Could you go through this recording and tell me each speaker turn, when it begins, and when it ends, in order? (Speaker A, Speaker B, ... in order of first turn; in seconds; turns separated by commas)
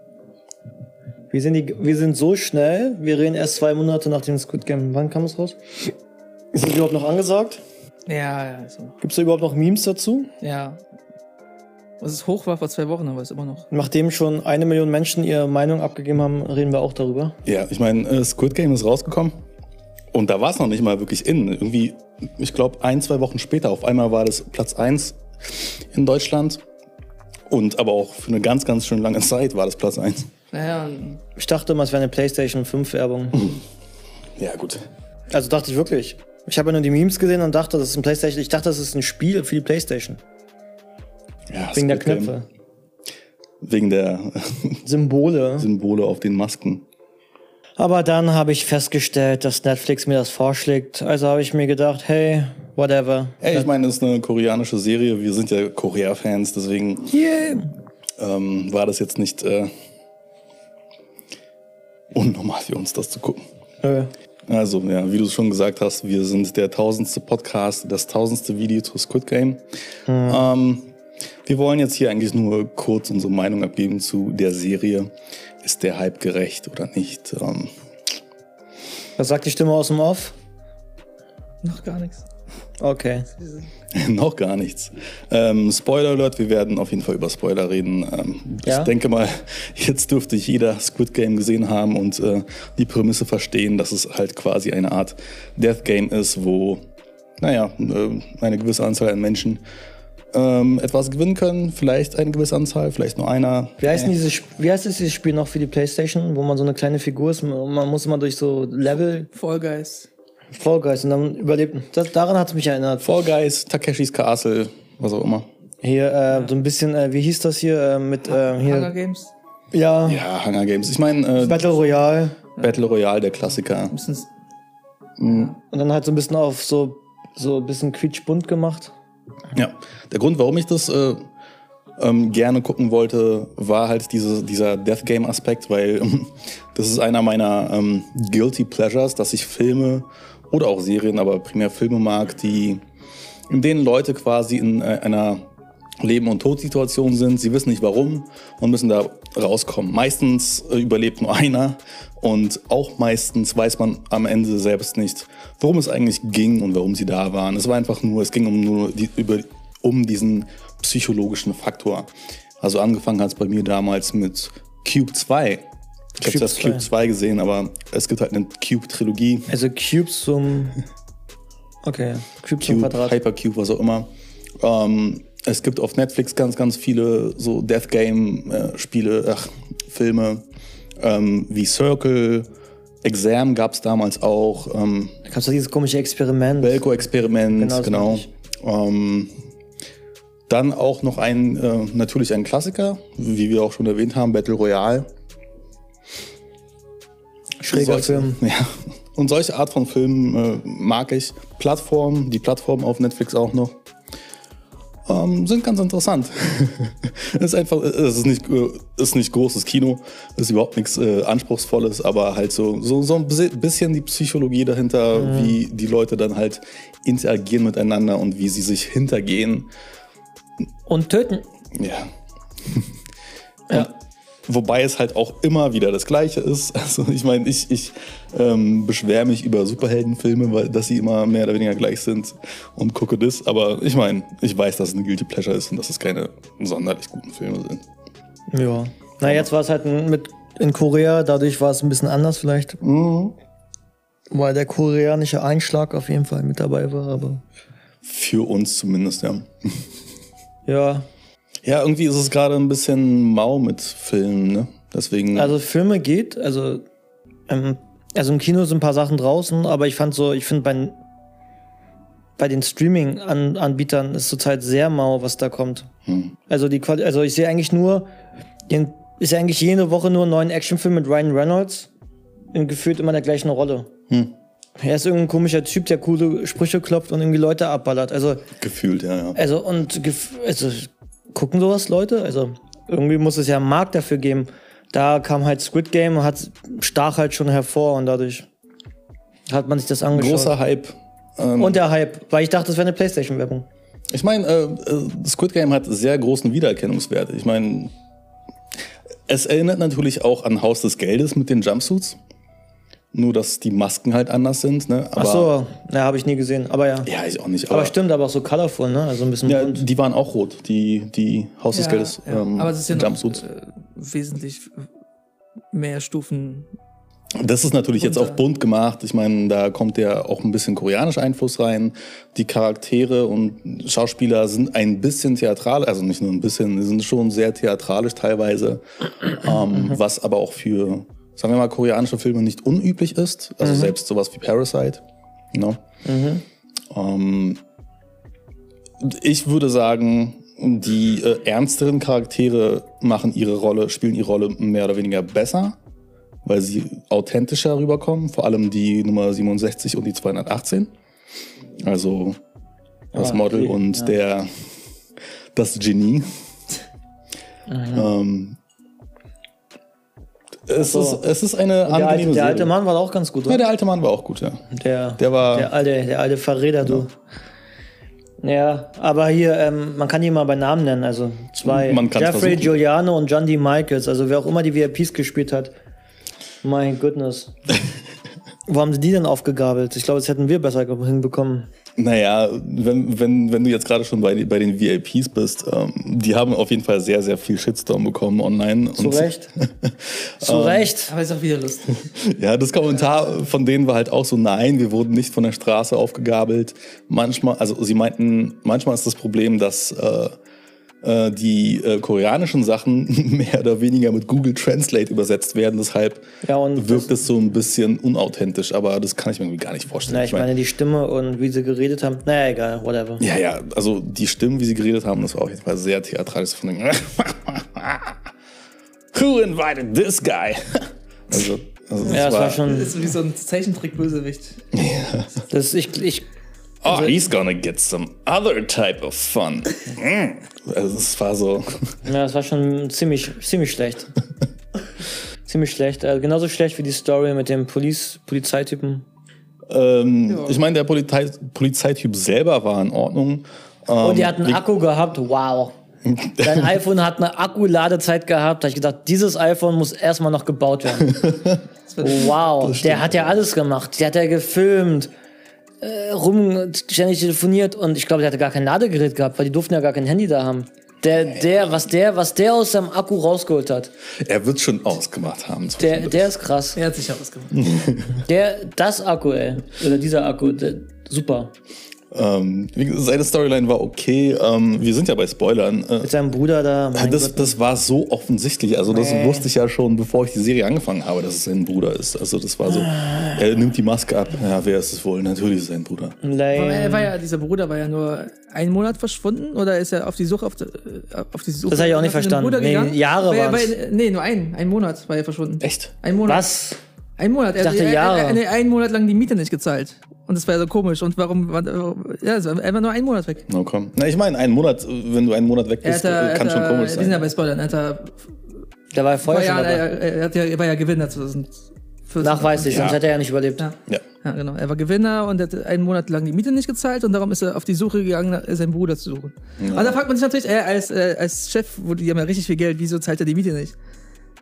Speaker A: 1.3-5.9, Speaker A: 6.5-7.6, Speaker B: 8.1-9.0, Speaker A: 9.0-10.3, Speaker B: 10.4-10.8, Speaker B: 12.0-13.7, Speaker A: 13.7-17.4, Speaker C: 17.4-19.4, Speaker C: 20.1-26.6, Speaker C: 27.5-30.3, Speaker B: 30.5-31.2, Speaker A: 31.4-33.6, Speaker C: 34.4-34.8, Speaker A: 35.3-40.2, Speaker C: 41.5-42.3, Speaker A: 41.7-42.5, Speaker C: 43.6-44.8, Speaker A: 44.9-45.7, Speaker C: 45.6-46.8, Speaker A: 47.8-53.7, Speaker C: 53.4-57.1, Speaker A: 57.1-57.7, Speaker C: 58.2-59.7, Speaker C: 62.1-63.4, Speaker A: 63.8-64.1, Speaker C: 64.5-69.6, Speaker A: 70.1-70.5, Speaker C: 70.3-70.9, Speaker C: 71.5-75.1, Speaker C: 75.6-77.7, Speaker A: 79.2-80.3, Speaker B: 81.6-82.2, Speaker A: 82.8-83.3, Speaker C: 83.9-96.8, Speaker A: 88.6-88.9, Speaker C: 97.4-99.6, Speaker C: 100.3-104.1, Speaker A: 103.8-109.3, Speaker B: 109.3-110.1, Speaker A: 110.5-113.1, Speaker C: 113.0-115.5, Speaker A: 115.8-118.9, Speaker B: 118.4-119.3, Speaker A: 119.7-120.3, Speaker C: 120.0-121.7, Speaker A: 121.4-122.4, Speaker C: 122.6-124.0, Speaker B: 123.9-124.3, Speaker C: 125.2-125.5, Speaker A: 125.7-128.9, Speaker C: 129.6-131.2, Speaker C: 132.0-142.8, Speaker C: 143.5-145.4, Speaker C: 146.0-162.1, Speaker C: 162.6-165.7, Speaker C: 166.2-169.5, Speaker A: 166.2-166.9, Speaker A: 169.5-170.8, Speaker A: 171.8-173.2, Speaker C: 172.6-174.1, Speaker C: 174.6-180.4, Speaker C: 181.0-182.5, Speaker C: 183.0-185.1, Speaker A: 185.3-186.8, Speaker C: 186.6-189.3, Speaker A: 187.5-188.3, Speaker C: 190.5-195.1, Speaker A: 197.6-198.4, Speaker C: 197.7-203.8, Speaker C: 205.1-219.7, Speaker A: 215.1-215.6, Speaker A: 220.9-221.4, Speaker C: 221.8-222.1, Speaker C: 224.5-237.8, Speaker A: 238.5-242.8, Speaker C: 242.8-243.3, Speaker A: 244.3-247.4, Speaker C: 248.0-249.5, Speaker A: 250.7-251.1, Speaker C: 251.6-255.6, Speaker A: 255.3-256.9, Speaker A: 257.5-261.0, Speaker A: 262.4-265.9, Speaker C: 266.1-266.3, Speaker A: 266.5-268.1, Speaker A: 268.7-271.9, Speaker A: 272.5-273.9, Speaker A: 274.8-278.5, Speaker C: 278.6-279.4, Speaker A: 279.4-288.5, Speaker A: 289.5-290.5, Speaker C: 290.1-291.8, Speaker A: 291.6-293.7, Speaker C: 294.1-297.9, Speaker C: 299.3-302.2, Speaker C: 303.1-305.5, Speaker A: 305.2-307.1, Speaker C: 307.1-307.9, Speaker A: 307.7-309.9, Speaker C: 309.4-313.4, Speaker B: 311.7-314.9, Speaker B: 315.7-316.7, Speaker C: 317.4-335.0, Speaker B: 318.0-318.4, Speaker A: 333.6-333.9, Speaker C: 335.5-335.8, Speaker A: 336.1-336.4, Speaker C: 336.9-337.6, Speaker C: 339.0-345.8, Speaker C: 346.5-350.9, Speaker C: 351.8-352.4, Speaker A: 353.1-354.1, Speaker C: 353.1-354.5, Speaker C: 355.6-356.3, Speaker A: 357.7-358.1, Speaker C: 357.9-358.6, Speaker C: 360.7-362.7, Speaker A: 360.8-361.2, Speaker A: 361.9-363.6, Speaker C: 363.5-364.6, Speaker A: 364.7-367.1, Speaker C: 365.2-365.7, Speaker A: 368.4-375.8, Speaker C: 371.6-372.7, Speaker A: 376.6-377.5, Speaker A: 378.7-381.7, Speaker C: 382.0-390.9, Speaker A: 389.0-389.5, Speaker A: 390.4-391.1, Speaker B: 391.1-392.1, Speaker C: 392.1-400.4, Speaker C: 401.0-406.2, Speaker A: 406.4-407.1, Speaker C: 406.8-410.5, Speaker A: 410.1-413.2, Speaker C: 413.2-418.2, Speaker C: 419.1-422.7, Speaker A: 422.1-423.0, Speaker B: 422.4-424.6, Speaker C: 424.7-425.3, Speaker A: 425.5-426.3, Speaker C: 426.8-431.9, Speaker A: 426.9-427.2, Speaker A: 432.1-434.1, Speaker A: 435.5-439.0, Speaker C: 439.7-444.6, Speaker B: 440.3-440.6, Speaker A: 444.0-445.7, Speaker C: 446.1-446.7, Speaker A: 446.4-451.2, Speaker C: 451.1-451.6, Speaker B: 451.9-452.3, Speaker A: 452.0-455.1, Speaker C: 452.6-453.4, Speaker A: 455.8-463.9, Speaker C: 464.2-466.3, Speaker A: 465.8-466.8, Speaker B: 466.8-467.6, Speaker C: 467.6-468.2, Speaker A: 468.2-471.5, Speaker C: 472.1-476.1, Speaker A: 476.0-477.6, Speaker C: 476.9-486.1, Speaker A: 478.9-479.5, Speaker A: 486.2-487.1, Speaker B: 486.5-496.5, Speaker A: 491.7-493.7, Speaker C: 495.6-495.9, Speaker A: 496.2-496.8, Speaker B: 497.2-503.4, Speaker A: 497.6-498.4, Speaker C: 503.5-507.3, Speaker B: 505.8-508.2, Speaker A: 508.9-509.9, Speaker B: 509.2-513.0, Speaker A: 512.2-513.7, Speaker C: 512.6-513.0, Speaker B: 513.6-523.8, Speaker C: 519.6-520.0